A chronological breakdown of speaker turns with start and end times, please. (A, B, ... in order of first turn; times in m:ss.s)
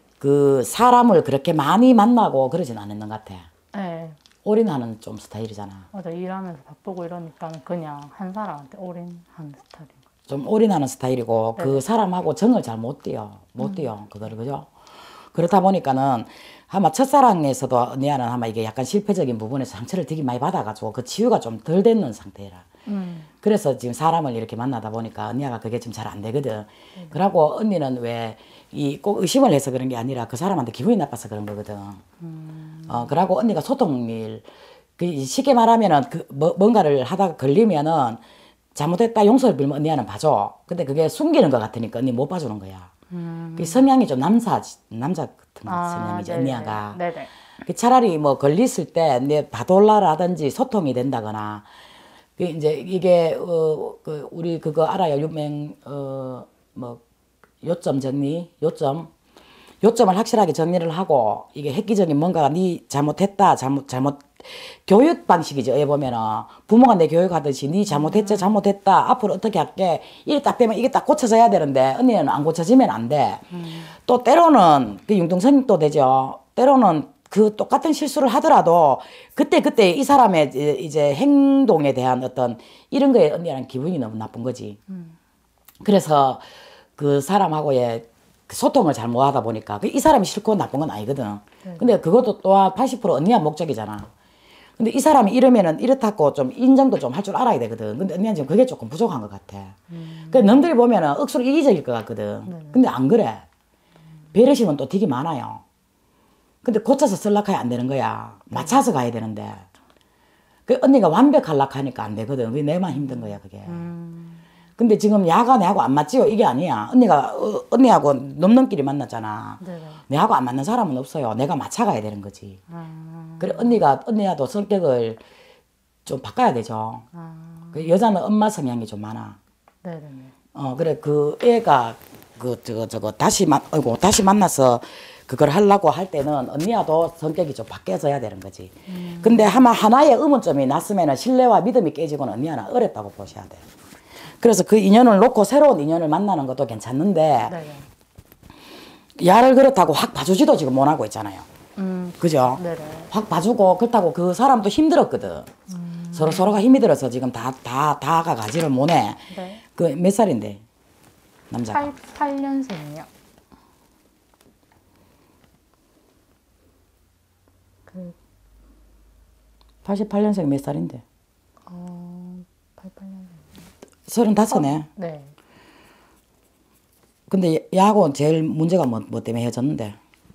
0:00.2-0:03.5 A
0:03.7-0:04.2 B
0:04.4-0:05.9 A
0:05.9-0:10.0 B
0:10.3-0:14.7 A
0:11.6-0:11.8 B
0:13.6-0:13.9 B
0:15.3-0:22.7 A
0:22.9-0:23.3 B
0:23.3-0:32.0 A
0:32.2-0:33.1 B
0:32.9-0:38.2 A
0:38.8-0:42.9 A
0:43.1-0:43.9 B
0:43.6-0:47.0 A
0:45.7-0:47.3 B
0:47.6-0:51.7 A
0:52.4-0:57.0 A
0:57.6-0:59.1 A
0:59.8-1:24.8 A
1:07.9-1:08.6 B
1:13.5-1:13.9 B
1:24.9-1:25.2 B
1:25.8-1:26.5 A
1:27.0-1:34.1 A
1:31.6-1:32.0 B
1:34.8-1:43.4 A
1:39.9-1:40.7 B
1:42.5-1:42.8 B
1:44.3-1:45.6 A
1:46.6-1:49.7 A
1:48.5-1:48.8 B
1:50.7-1:53.8 A
1:53.0-1:54.4 B
1:54.8-2:02.6 A
1:59.6-2:00.0 B
2:02.7-2:03.8 B
2:03.4-2:05.2 A
2:06.0-2:07.0 A
2:07.1-2:07.9 B
2:07.7-2:09.4 A
2:09.8-2:10.3 B
2:10.5-2:23.6 A
2:18.9-2:19.7 B
2:24.4-2:27.6 A
2:27.5-2:27.9 B
2:29.2-2:31.5 A
2:31.8-2:33.1 B
2:32.2-2:35.5 A
2:35.7-2:36.6 B
2:36.1-2:40.6 A
2:39.3-2:39.6 B
2:41.5-2:41.9 A
2:41.7-2:43.1 B
2:47.9-2:48.2 B
2:49.8-2:51.0 A
2:51.7-2:53.5 B
2:54.1-2:54.9 A
2:54.5-2:55.4 B
2:57.3-3:00.0 A